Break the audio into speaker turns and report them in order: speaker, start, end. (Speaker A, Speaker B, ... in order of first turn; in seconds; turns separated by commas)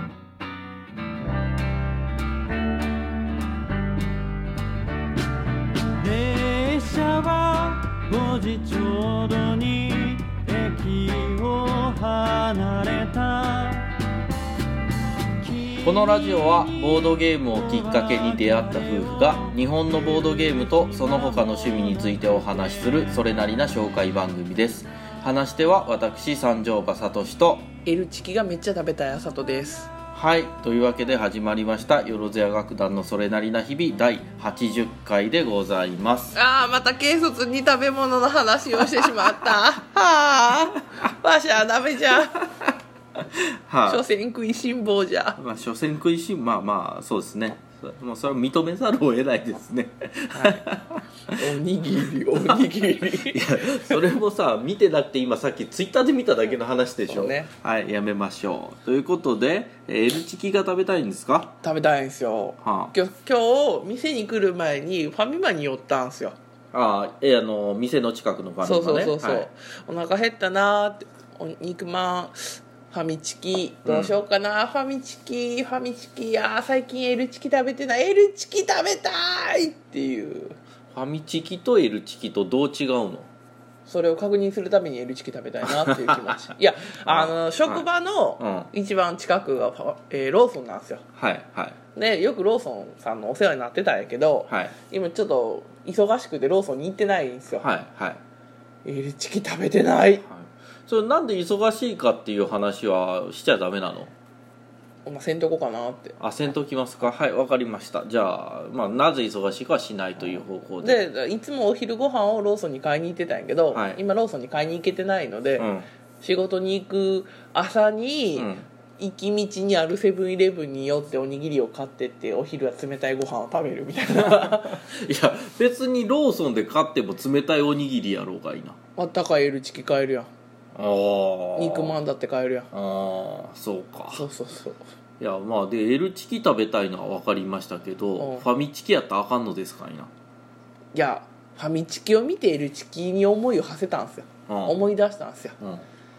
Speaker A: 6.0-13.9, Speaker A: 15.4-19.6, Speaker B: 15.8-27.7, Speaker A: 20.7-22.2, Speaker C: 27.8-29.9, Speaker B: 30.1-36.4, Speaker C: 36.3-42.5, Speaker B: 38.8-39.2, Speaker B: 43.2-44.0, Speaker C: 43.9-45.4, Speaker B: 45.4-51.6, Speaker C: 50.3-50.6, Speaker C: 51.3-54.0, Speaker B: 52.3-61.6, Speaker C: 57.1-57.5, Speaker C: 61.6-66.4, Speaker B: 62.6-62.9, Speaker B: 66.7-69.5, Speaker C: 68.6-80.6, Speaker B: 73.8-74.1, Speaker B: 80.9-83.3, Speaker C: 83.9-91.0, Speaker B: 85.6-87.8, Speaker B: 88.4-88.7, Speaker B: 91.2-91.8, Speaker C: 91.9-97.7, Speaker B: 94.5-94.7, Speaker B: 97.5-98.2, Speaker C: 98.8-100.2, Speaker B: 100.2-104.1, Speaker C: 105.0-106.2, Speaker B: 106.2-111.0, Speaker C: 110.8-115.7, Speaker B: 113.7-114.0, Speaker B: 115.6-115.9, Speaker C: 116.2-124.8, Speaker B: 118.3-118.7, Speaker B: 124.2-128.8, Speaker C: 129.0-130.3, Speaker B: 130.7-132.0, Speaker C: 131.6-132.7, Speaker B: 132.7-134.2, Speaker C: 134.1-134.8, Speaker B: 135.2-140.1, Speaker C: 138.2-138.4, Speaker C: 140.9-145.6, Speaker B: 144.5-144.8, Speaker B: 145.6-145.8